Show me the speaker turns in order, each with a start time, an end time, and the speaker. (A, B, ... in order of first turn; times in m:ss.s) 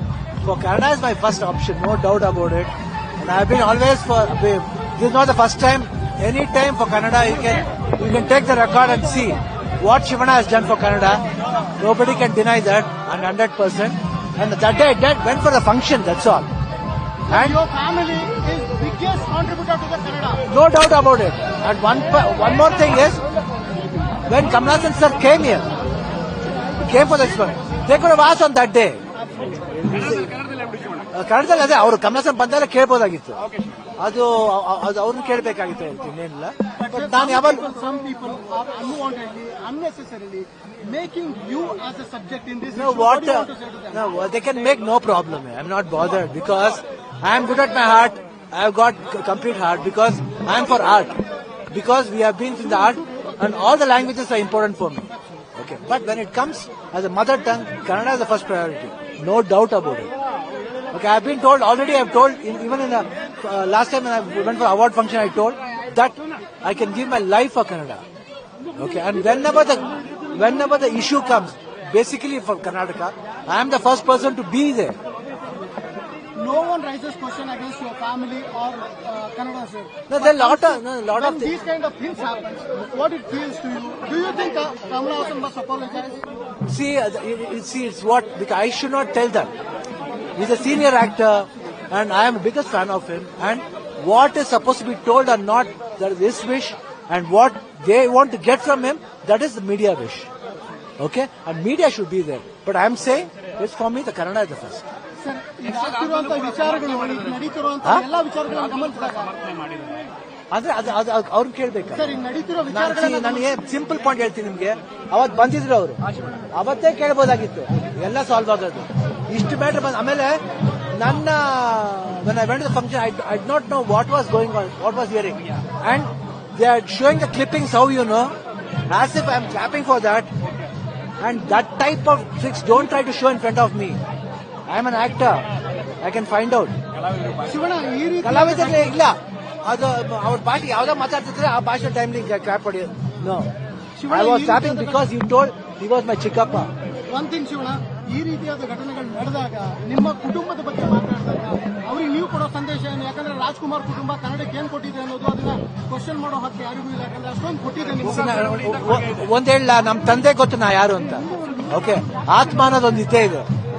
0:00.4-0:11.2 A
0:11.8-0:16.5 A
0:17.3-0:20.4 B
0:17.3-0:17.6 A
0:20.5-0:23.2 A
0:24.3-0:25.7 A
0:26.8-0:29.0 A
0:29.2-0:29.9 B
0:29.7-0:30.4 A
0:31.1-0:33.4 A
0:34.0-0:37.7 A
0:36.8-0:44.0 B
0:42.7-0:51.2 A
0:51.7-1:00.1 A
1:00.9-1:08.0 A
1:08.8-1:15.0 A
1:16.4-1:26.2 B
1:20.1-1:21.5 A
1:26.7-1:29.5 A
1:30.4-1:40.3 A
1:41.0-1:44.8 A
1:45.2-1:49.5 B
1:50.5-1:52.1 A
1:51.9-1:53.5 B
1:52.7-1:56.0 A
1:56.5-2:00.4 A
2:00.9-2:08.3 A
2:08.9-2:10.3 A
2:11.2-2:14.0 A
2:14.7-2:15.5 A
2:16.0-2:16.8 A
2:17.4-2:19.0 B
2:18.2-2:23.5 A
2:24.0-2:25.0 B
2:24.1-2:26.7 A
2:27.1-2:38.7 B
2:38.0-2:43.5 A